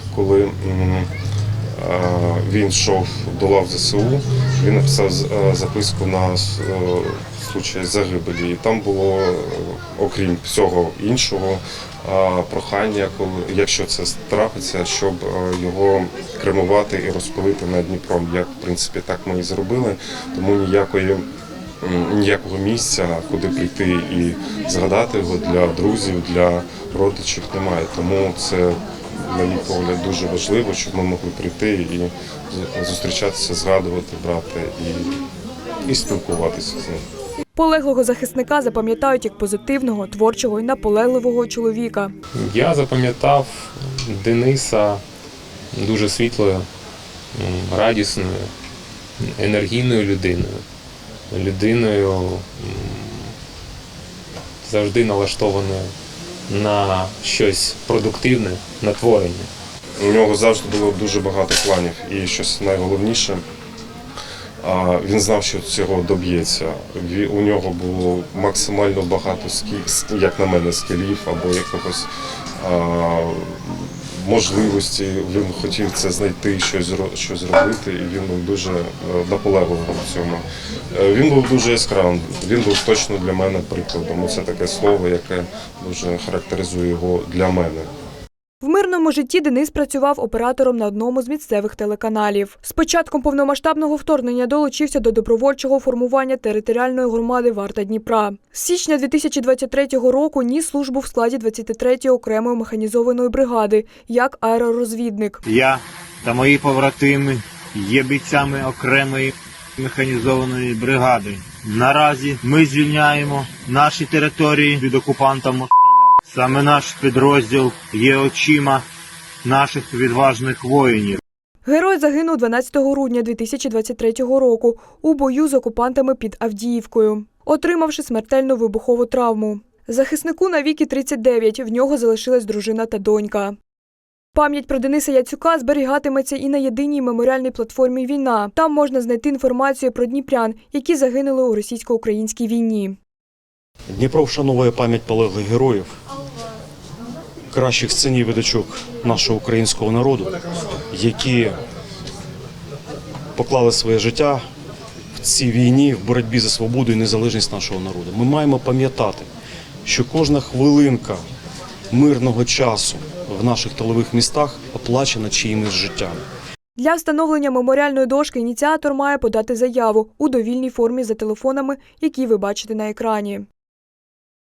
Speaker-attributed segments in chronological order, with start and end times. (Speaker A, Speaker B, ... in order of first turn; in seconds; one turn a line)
Speaker A: 0.1-1.1
Speaker A: 1.8-21.2
Speaker A: 21.8-35.2
Speaker A: 35.9-37.0
Speaker B: 37.5-42.1
Speaker C: 42.4-45.0
Speaker C: 45.7-46.7
Speaker C: 47.3-48.5
Speaker C: 49.2-50.6
Speaker C: 51.3-53.4
Speaker C: 54.6-55.9
Speaker C: 56.5-59.5
Speaker A: 60.0-63.4
Speaker A: 64.6-72.1
Speaker A: 72.6-87.9
Speaker B: 88.6-105.4
Speaker D: 105.4-118.8
Speaker D: 119.4-121.2
Speaker B: 121.6-133.6
Speaker B: 134.3-143.0
Speaker E: 143.9-145.9
Speaker E: 147.5-150.4
Speaker E: 150.9-151.6
Speaker E: 153.4-154.4
Speaker E: 155.1-159.3
Speaker E: 159.8-161.2
Speaker E: 161.9-166.2
Speaker B: 166.8-173.5